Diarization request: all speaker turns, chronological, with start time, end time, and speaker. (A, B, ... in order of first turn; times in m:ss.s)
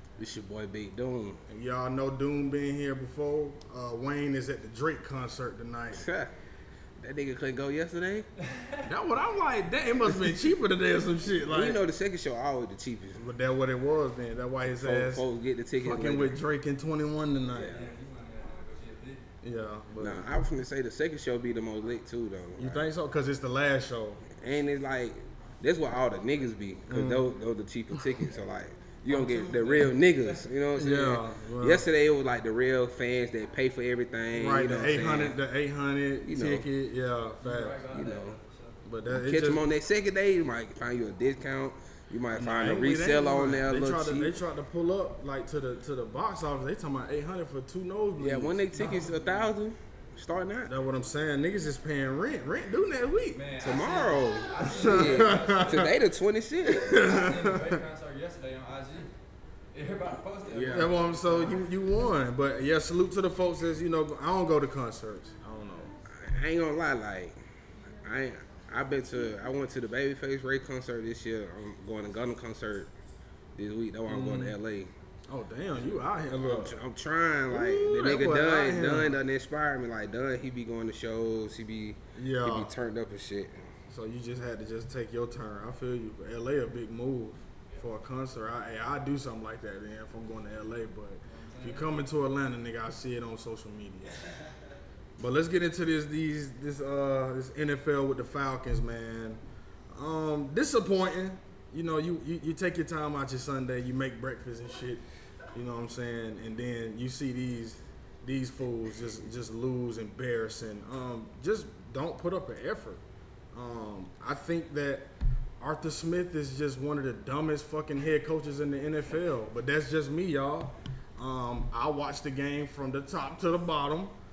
0:00.2-0:01.4 A
0:01.5-0:06.0 B
0:05.9-0:06.3 A
0:07.0-0:08.3 A
0:08.4-0:08.9 C
0:08.8-0:11.8 B
0:10.1-0:10.3 A
0:11.5-0:13.2 A
0:13.2-0:15.2 B
0:14.8-0:16.4 A
0:15.8-0:17.8 B
0:17.5-0:17.9 A
0:17.6-0:19.2 C
0:19.4-0:20.3 B
0:20.0-0:22.9 A
0:22.6-0:24.2 B
0:24.3-0:35.4 A
0:26.9-0:27.3 B
0:29.1-0:30.4 C
0:30.8-0:31.8 B
0:34.4-0:37.8 B
0:36.2-0:36.7 A
0:37.4-0:38.8 C
0:37.9-0:38.4 A
0:38.8-0:39.6 B
0:39.1-0:44.4 A
0:42.4-0:48.8 B
0:48.2-0:50.7 A
0:48.7-0:49.5 C
0:50.7-0:53.4 B
0:53.3-0:56.0 C
0:53.6-0:57.1 A
0:54.7-0:55.9 B
0:56.7-0:57.8 B
0:56.8-0:59.1 C
0:59.7-1:01.6 C
1:00.5-1:01.0 A
1:00.7-1:05.9 B
1:06.1-1:07.4 A
1:08.0-1:12.9 A
1:13.6-1:14.9 A
1:14.1-1:14.6 B
1:15.3-1:16.8 B
1:15.7-1:23.7 A
1:17.5-1:19.2 B
1:22.2-1:22.7 B
1:23.9-1:34.2 B
1:31.3-1:32.0 C
1:35.2-1:45.0 B
1:45.5-1:53.0 B
1:53.5-1:55.1 B
1:55.6-2:04.1 B